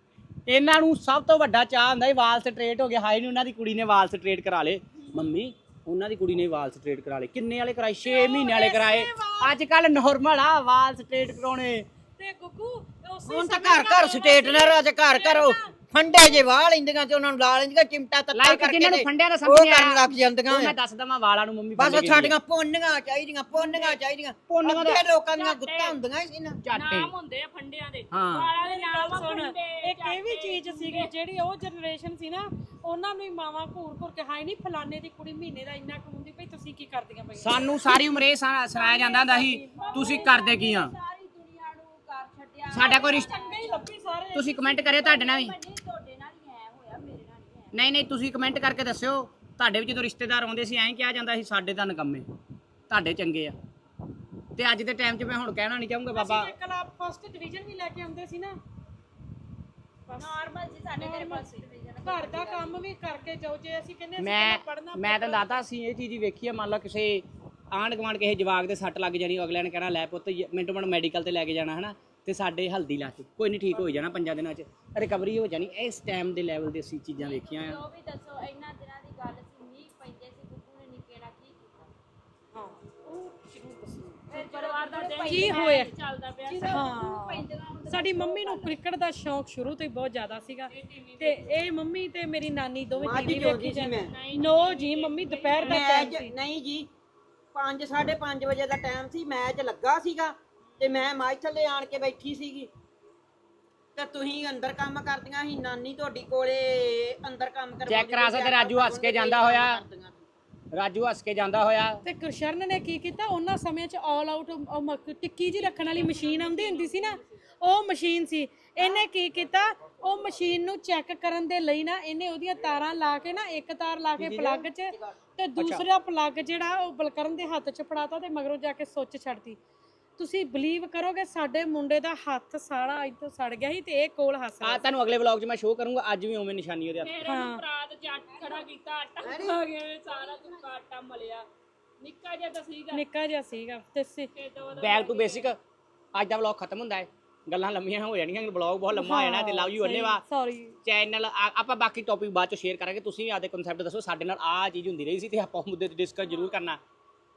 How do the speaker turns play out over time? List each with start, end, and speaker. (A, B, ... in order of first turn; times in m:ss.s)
0:00.4-0:11.9 A
0:08.0-0:09.5 B
0:12.2-0:15.7 B
0:13.3-0:20.8 C
0:18.3-0:22.3 A
0:21.8-0:26.6 C
0:23.5-0:23.9 B
0:24.5-0:25.0 A
0:25.3-0:26.0 D
0:26.6-0:27.1 A
0:26.7-0:31.1 D
0:28.1-0:28.5 A
0:28.6-0:38.0 B
0:37.4-0:40.9 A
0:38.7-0:47.7 E
0:39.7-0:40.4 B
0:42.7-0:43.3 A
0:42.9-0:44.6 B
0:44.3-0:45.5 A
0:47.7-0:52.2 A
0:52.9-0:53.5 A
0:54.6-0:56.5 A
0:56.1-0:58.6 B
1:00.1-1:00.4 B
1:00.2-1:02.8 E
1:01.0-1:05.5 B
1:04.2-1:17.8 A
1:17.2-1:21.9 E
1:22.5-1:24.3 B
1:24.3-1:25.9 E
1:24.3-1:26.9 D
1:25.2-1:25.9 B
1:26.5-1:28.8 E
1:26.5-1:36.3 B
1:30.7-1:31.4 D
1:32.9-1:34.1 C
1:34.0-1:36.1 D
1:35.6-1:36.9 C
1:37.5-1:42.7 C
1:44.0-1:50.2 C
1:47.9-1:49.8 A
1:50.7-1:52.0 A
1:52.0-2:09.6 B
1:55.5-1:57.3 D
2:04.2-2:04.6 A
2:05.6-2:05.8 A
2:10.2-2:14.8 B
2:14.6-2:17.1 A
2:17.0-2:21.5 D
2:17.2-2:17.6 B
2:19.2-2:19.6 C
2:22.0-2:23.0 D
2:22.9-2:24.3 B
2:24.3-2:25.5 D
2:24.8-2:25.6 A
2:26.1-2:30.2 A
2:28.9-2:30.8 B
2:30.8-2:36.8 A